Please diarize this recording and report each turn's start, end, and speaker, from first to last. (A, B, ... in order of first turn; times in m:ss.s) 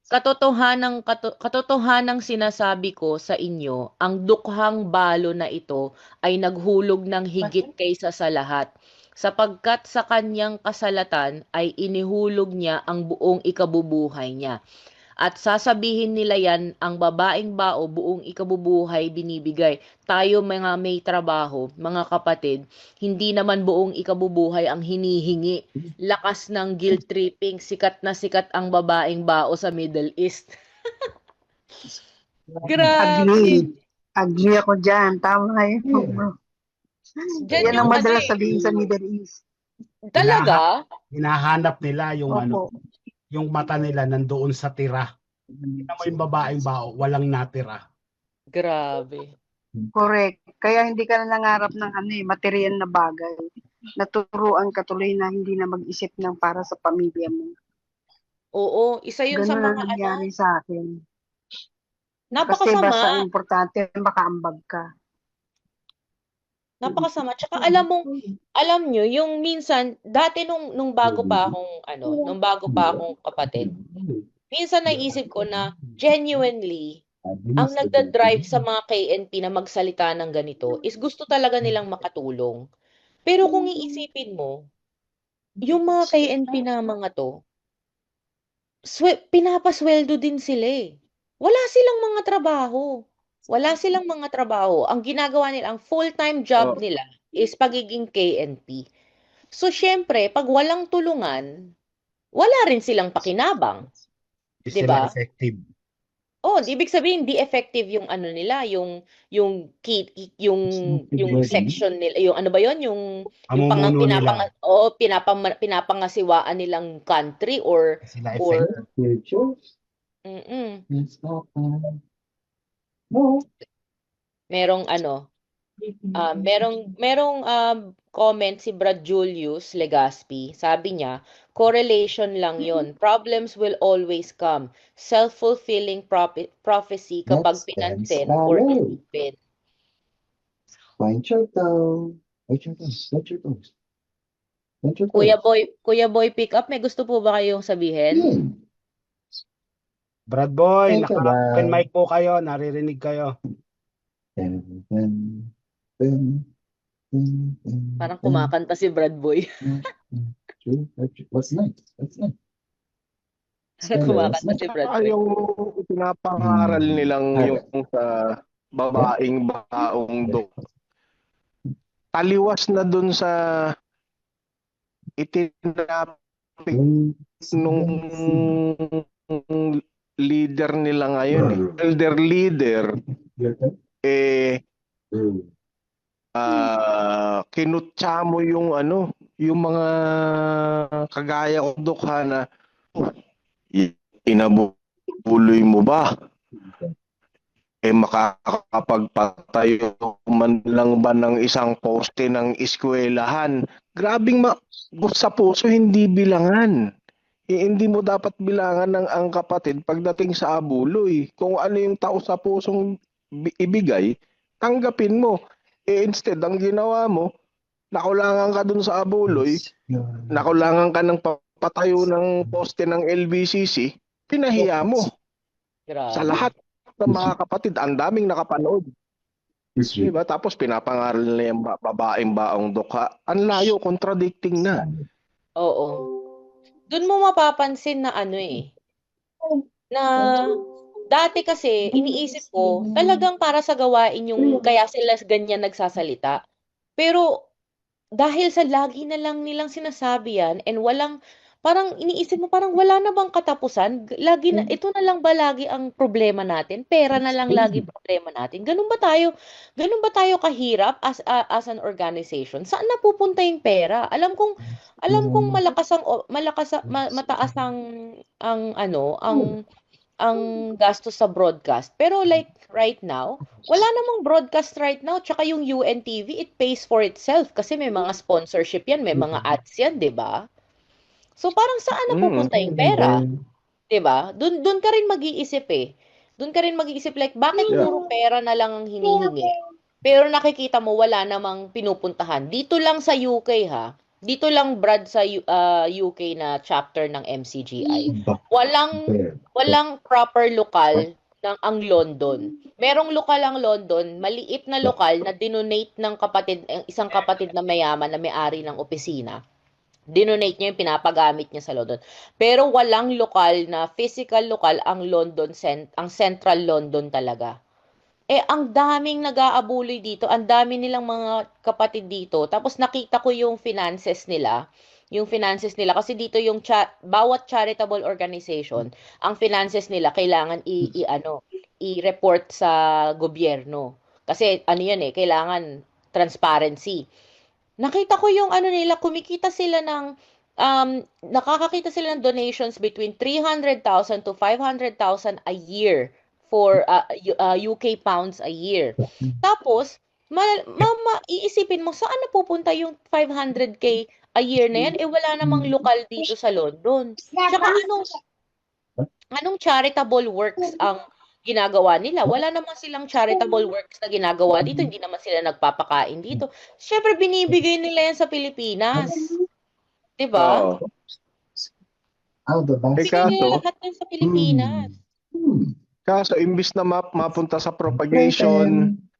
0:00.1-0:08.7 A
0:09.2-0:14.6 A
0:15.2-0:30.5 A
0:32.5-0:33.2 B
0:32.6-0:33.6 A
0:33.0-0:33.7 C
0:34.2-0:36.3 C
0:35.8-0:36.3 B
0:37.4-0:38.4 A
0:37.5-0:39.4 C
0:37.6-0:38.8 B
0:40.1-0:40.7 A
0:40.2-0:42.6 D
0:42.3-0:42.7 C
0:43.3-0:45.1 D
0:45.5-0:46.7 B
0:45.9-0:47.8 D
0:48.6-0:49.3 A
0:50.0-0:53.4 C
0:54.0-0:57.5 C
0:58.6-1:00.2 A
0:59.3-1:00.9 C
1:02.3-1:03.2 A
1:02.5-1:04.8 C
1:06.8-1:08.1 A
1:06.8-1:08.4 B
1:08.6-1:13.7 A
1:11.0-1:11.6 B
1:12.7-1:14.3 B
1:14.5-1:17.0 A
1:14.9-1:16.0 B
1:17.3-1:18.6 B
1:17.6-1:22.6 A
1:23.3-1:24.5 A
1:25.6-1:26.2 B
1:25.6-1:27.3 A
1:28.9-1:32.9 A
1:33.5-1:38.8 A
1:39.5-1:41.5 A
1:42.4-1:43.8 A
1:44.7-1:45.6 D
1:44.7-1:45.1 A
1:46.5-1:53.0 A
1:50.8-1:51.8 B
1:53.5-1:54.4 D
1:53.6-1:58.7 A
1:58.0-1:58.7 D
1:58.9-1:59.7 B
2:00.3-2:00.8 A
2:00.9-2:02.0 B
2:03.1-2:03.5 B
2:04.5-2:05.3 A
2:05.8-2:06.7 B
2:06.2-2:19.4 A
2:17.3-2:19.0 B
2:21.0-2:23.7 B
2:24.8-2:25.4 B
2:25.1-2:28.3 A
2:28.1-2:28.6 B
2:30.3-2:33.3 D
2:30.9-2:31.8 B
2:34.4-2:35.5 B
2:36.0-2:36.4 B
2:37.1-2:38.5 B
2:38.0-2:39.4 A
2:39.6-2:42.3 B
2:43.9-2:45.1 A
2:43.9-2:44.7 B
2:44.8-2:50.5 E
2:46.4-2:47.6 B
2:49.8-2:50.5 B
2:52.2-2:53.4 E
2:55.2-2:56.8 E
2:56.7-2:58.6 B
2:57.5-2:59.8 E
3:00.3-3:03.0 E
3:01.3-3:01.8 B
3:03.0-3:03.7 B
3:04.1-3:04.6 E
3:05.1-3:05.5 B
3:06.4-3:12.4 E
3:13.8-3:16.1 E
3:16.6-3:16.9 B
3:17.9-3:26.8 E
3:27.5-3:32.8 E
3:33.4-3:34.1 E
3:34.6-3:35.4 E
3:35.9-3:37.3 E
3:37.9-3:39.6 E
3:39.3-3:40.7 B
3:40.3-3:45.1 E
3:44.6-3:45.1 B
3:45.9-3:46.3 A
3:46.2-3:48.9 E
3:47.1-3:47.3 B
3:49.8-3:50.2 B
3:50.0-3:54.8 E
3:54.6-3:55.1 B
3:55.6-3:56.0 A
3:56.9-3:58.7 A
3:59.9-4:00.3 A
4:00.2-4:00.5 B
4:01.1-4:06.4 A
4:01.9-4:03.3 B
4:04.4-4:04.7 B
4:07.0-4:07.2 A
4:08.2-4:24.6 A
4:17.1-4:17.9 B
4:24.6-4:25.8 B
4:25.1-4:27.8 A
4:26.9-4:27.7 B
4:28.5-4:29.5 A
4:29.3-4:29.6 B
4:30.2-4:40.4 A
4:39.1-4:39.6 B
4:41.4-4:43.2 A
4:42.1-4:42.5 E
4:42.4-4:43.3 B
4:43.9-4:45.9 A
4:46.4-4:49.5 A
4:50.0-4:59.0 A
4:57.8-4:59.8 B
4:59.6-5:09.4 A
5:10.1-5:17.5 A
5:18.3-5:24.6 A
5:25.2-5:37.0 A
5:37.8-5:40.1 A
5:40.6-5:58.1 A
5:49.0-5:49.4 B
5:54.7-5:55.8 B
5:57.3-5:57.8 B
5:59.4-6:09.3 A
6:04.6-6:04.9 B
6:09.0-6:09.4 B
6:10.2-6:10.6 A
6:10.4-6:10.8 E
6:12.5-6:13.6 B
6:13.0-6:14.9 A
6:13.0-6:13.6 E
6:14.2-6:15.8 B
6:16.1-6:18.7 E
6:17.9-6:19.0 B